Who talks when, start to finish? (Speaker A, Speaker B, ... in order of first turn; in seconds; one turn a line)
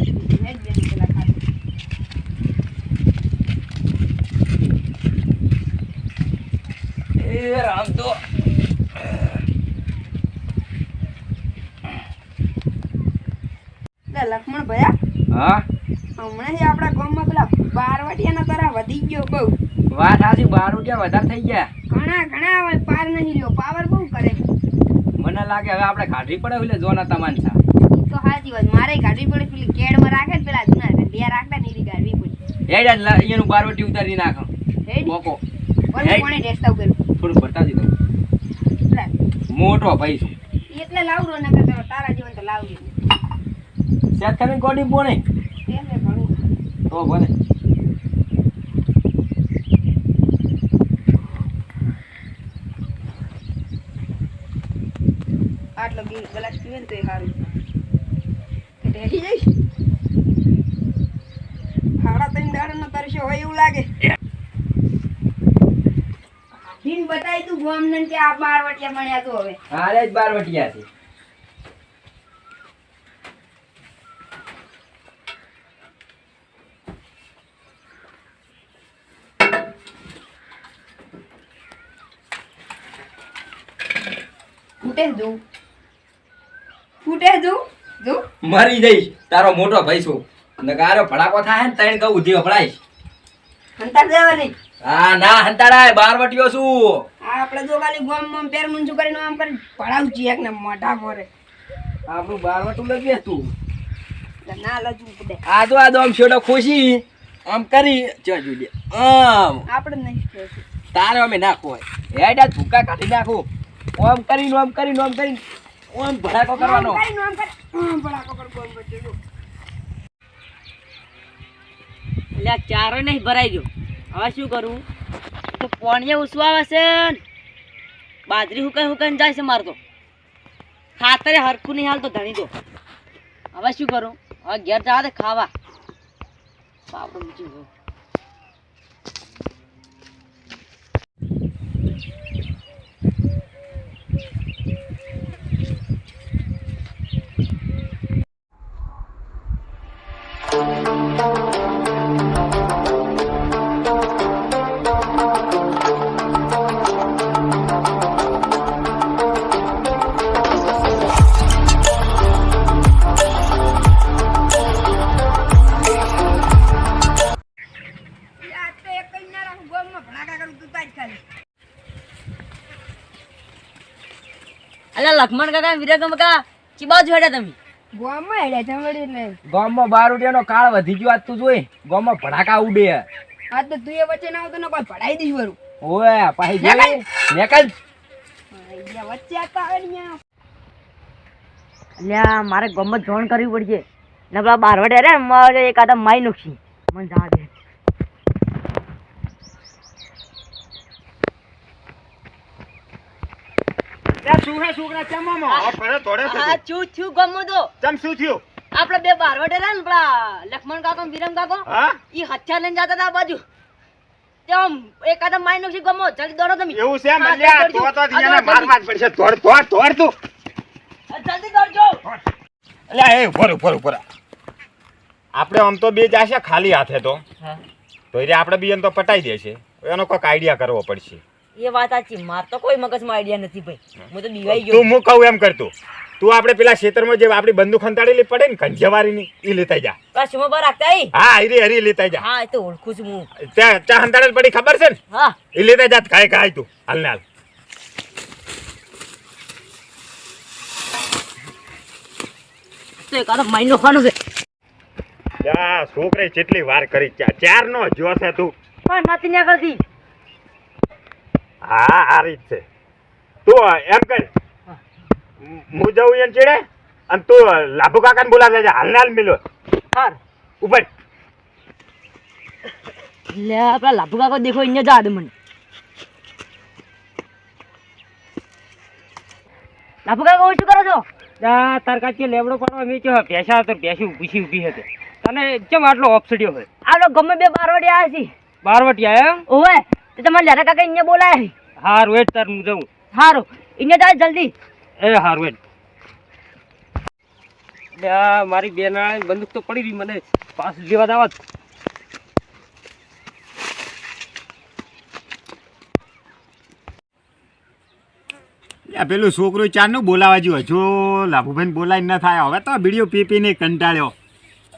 Speaker A: 0.2-1.4
Speaker B: 7.2-8.2
Speaker A: 14.1-14.9
Speaker B: 15.3-15.6
Speaker A: 16.2-19.5
Speaker B: 19.9-21.7
Speaker A: 21.9-24.4
Speaker B: 25.2-27.6
Speaker A: 27.9-32.4
Speaker B: 32.7-34.5
Speaker A: 34.9-35.1
Speaker B: 35.1-35.4
Speaker A: 35.9-37.0
Speaker B: 36.0-36.3
Speaker B: 37.2-37.9
Speaker B: 39.5-40.3
Speaker A: 40.7-43.0
Speaker B: 44.1-45.2
Speaker A: 45.7-46.3
Speaker B: 46.9-47.3
Speaker A: 55.8-57.5
Speaker A: 58.8-59.5
Speaker A: 62.0-63.9
Speaker A: 66.8-69.6
Speaker B: 69.7-70.9
Speaker A: 84.8-85.4
Speaker A: 87.0-88.2
Speaker B: 88.4-92.8
Speaker A: 93.8-94.5
Speaker B: 94.8-97.0
Speaker A: 97.2-101.3
Speaker B: 102.1-103.5
Speaker A: 104.5-105.4
Speaker B: 105.5-109.6
Speaker A: 109.7-110.6
Speaker B: 110.9-117.0
Speaker A: 116.6-119.2
Speaker C: 122.3-124.8
Speaker C: 125.6-127.2
Speaker C: 128.3-129.8
Speaker C: 131.0-132.5
Speaker C: 133.5-135.5
Speaker C: 136.9-137.7
Speaker A: 168.4-171.2
Speaker C: 174.9-177.6
Speaker A: 177.9-179.4
Speaker B: 179.5-183.1
Speaker A: 183.5-185.6
Speaker B: 185.8-187.8
Speaker A: 186.6-187.0
Speaker A: 188.5-190.2
Speaker C: 192.0-197.5
Speaker D: 204.2-206.6
Speaker C: 205.5-207.7
Speaker D: 207.8-208.4
Speaker C: 208.7-213.4
Speaker D: 211.7-212.0
Speaker C: 214.5-218.8
Speaker D: 216.7-220.2
Speaker C: 221.1-222.0
Speaker D: 222.9-224.0
Speaker D: 225.3-227.2
Speaker D: 228.1-231.2
Speaker C: 231.6-234.9
Speaker D: 234.4-240.0
Speaker C: 240.2-241.1
Speaker D: 241.2-242.2
Speaker C: 242.2-243.3
Speaker D: 243.4-245.0
Speaker C: 245.1-245.4
Speaker D: 245.5-247.2
Speaker C: 253.0-254.2
Speaker D: 255.4-258.5
Speaker C: 258.9-259.8
Speaker D: 261.6-262.6
Speaker D: 263.4-264.3
Speaker D: 265.4-269.4
Speaker D: 270.6-270.9
Speaker C: 273.3-275.3
Speaker C: 280.1-281.1
Speaker E: 281.4-286.7
Speaker C: 286.9-288.3
Speaker E: 288.6-289.4
Speaker C: 289.5-291.5
Speaker E: 291.8-292.9
Speaker C: 293.1-294.5
Speaker E: 295.0-295.6
Speaker E: 298.0-301.4
Speaker D: 308.9-314.1